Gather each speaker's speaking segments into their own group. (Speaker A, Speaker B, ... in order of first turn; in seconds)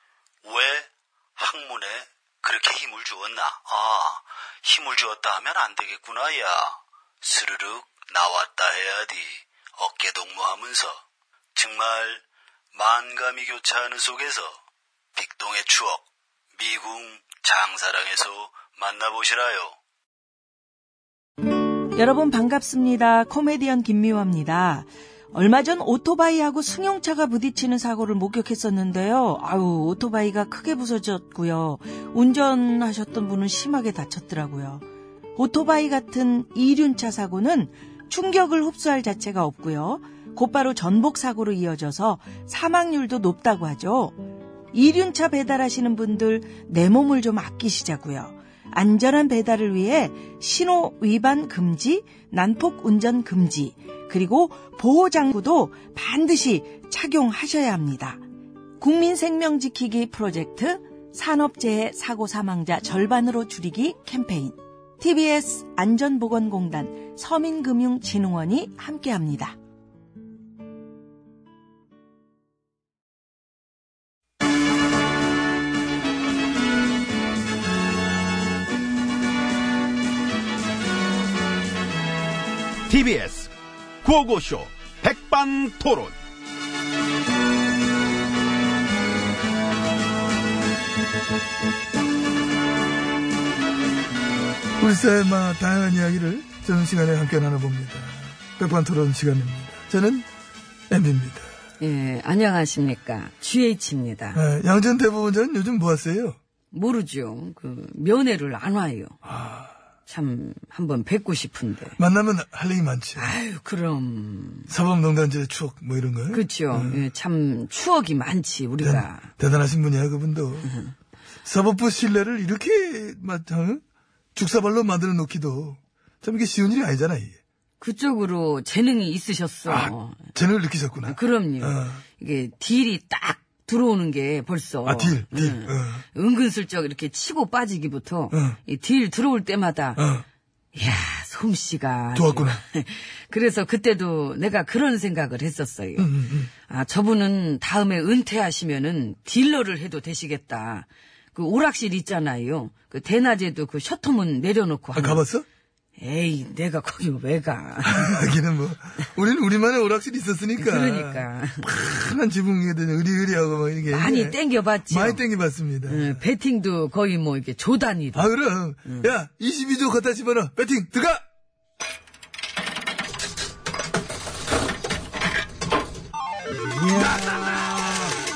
Speaker A: 0.4-11.0, 11.5-14.6, 15.1-16.0, 16.6-19.8
Speaker B: 21.9-34.8, 35.4-44.2, 44.7-58.2, 58.8-69.5
Speaker C: 82.9-83.5, 84.0-86.1
Speaker D: 94.8-100.3, 100.9-101.5, 104.3-106.4, 109.2-109.7, 112.0-113.3, 114.7-117.0, 118.8-120.7, 121.4-123.8, 124.3-127.4, 129.7-132.0, 134.8-136.0, 138.3-138.6, 139.9-140.2, 142.1-142.6, 146.0-146.5, 154.9-155.4, 157.8-166.2, 168.1-171.2
Speaker E: 101.8-104.4, 106.7-109.2, 110.0-112.0, 113.1-114.7, 116.3-119.3, 120.6-120.9, 127.8-130.3, 131.0-140.0, 140.7-155.2, 156.0-158.3, 160.6-161.7, 163.9-165.2, 165.9-168.3, 176.7-178.2